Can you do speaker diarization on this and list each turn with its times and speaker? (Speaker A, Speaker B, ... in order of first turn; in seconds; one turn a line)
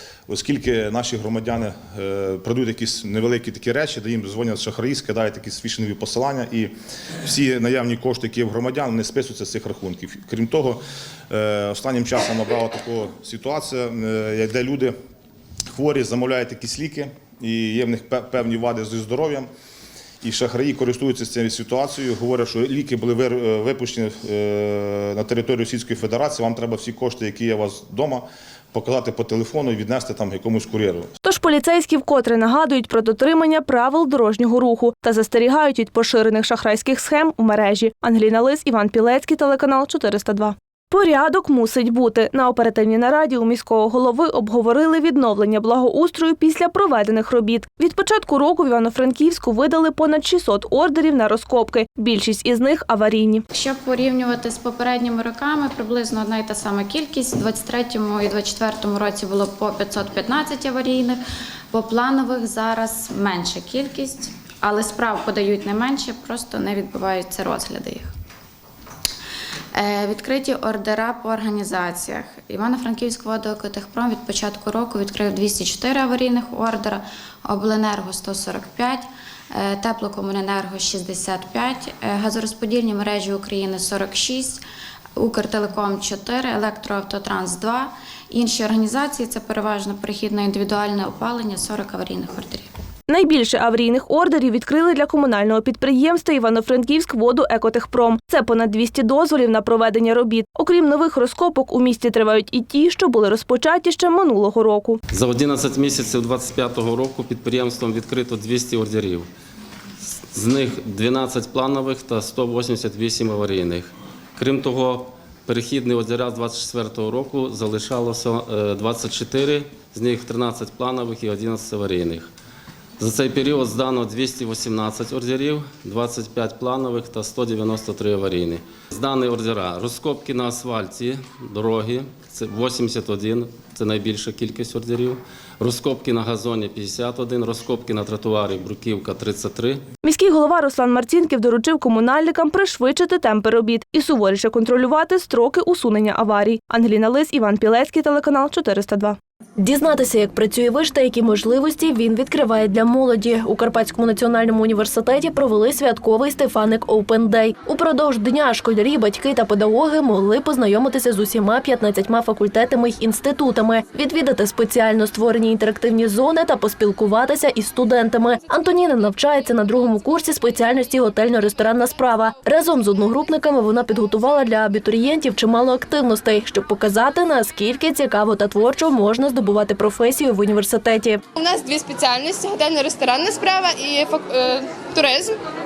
Speaker A: 0.3-6.7
Speaker A: 7.2-14.9
Speaker A: 15.7-19.5
Speaker A: 20.2-31.1
Speaker B: 31.2-53.4
Speaker C: 53.5-68.1
Speaker C: 69.7-84.6
Speaker C: 85.2-92.7
Speaker B: 93.1-105.0
Speaker D: 105.1-109.2
Speaker D: 110.3-122.2
Speaker D: 123.0-139.8
Speaker B: 140.0-149.2
Speaker E: 149.6-181.2
Speaker F: 181.4-185.4